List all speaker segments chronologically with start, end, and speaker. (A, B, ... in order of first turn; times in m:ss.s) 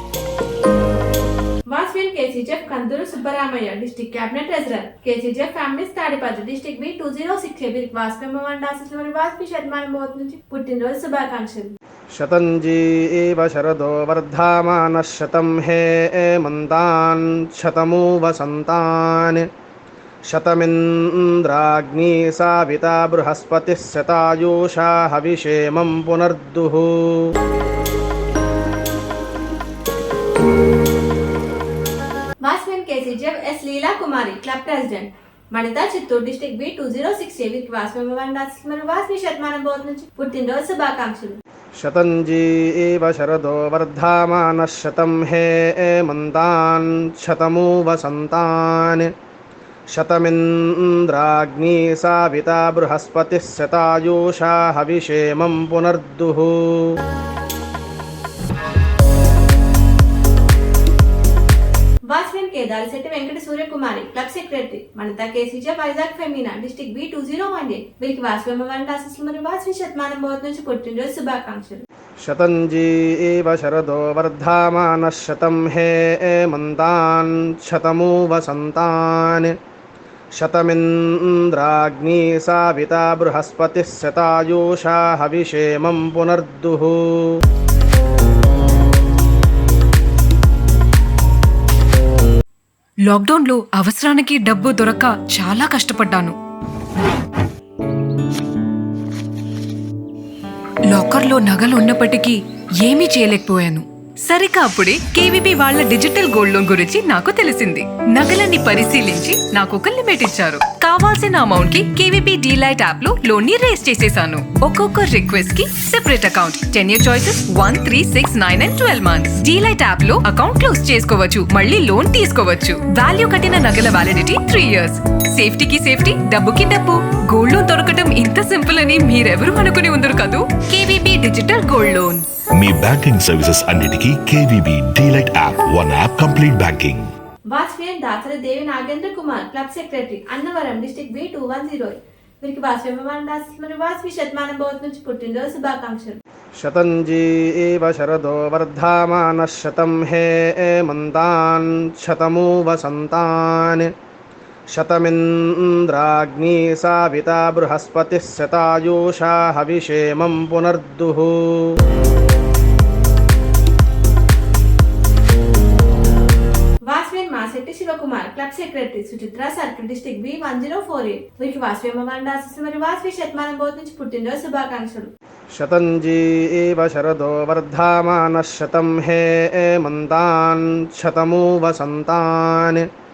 0:01.7-0:11.7 A
0:12.1-0:19.4 B
0:20.3-0:27.2 B
0:32.4-0:41.4 A
0:41.8-0:49.1 B
0:49.9-0:56.8 B
1:02.1-1:11.8 A
1:12.2-1:19.5 B
1:20.4-1:27.0 B
1:33.1-1:36.4 C
1:40.9-2:12.2 C
2:12.5-2:17.1 D
2:17.5-2:26.2 A
2:26.6-2:33.9 B
2:34.7-2:41.7 B
2:46.9-2:55.1 A
2:55.5-3:02.8 B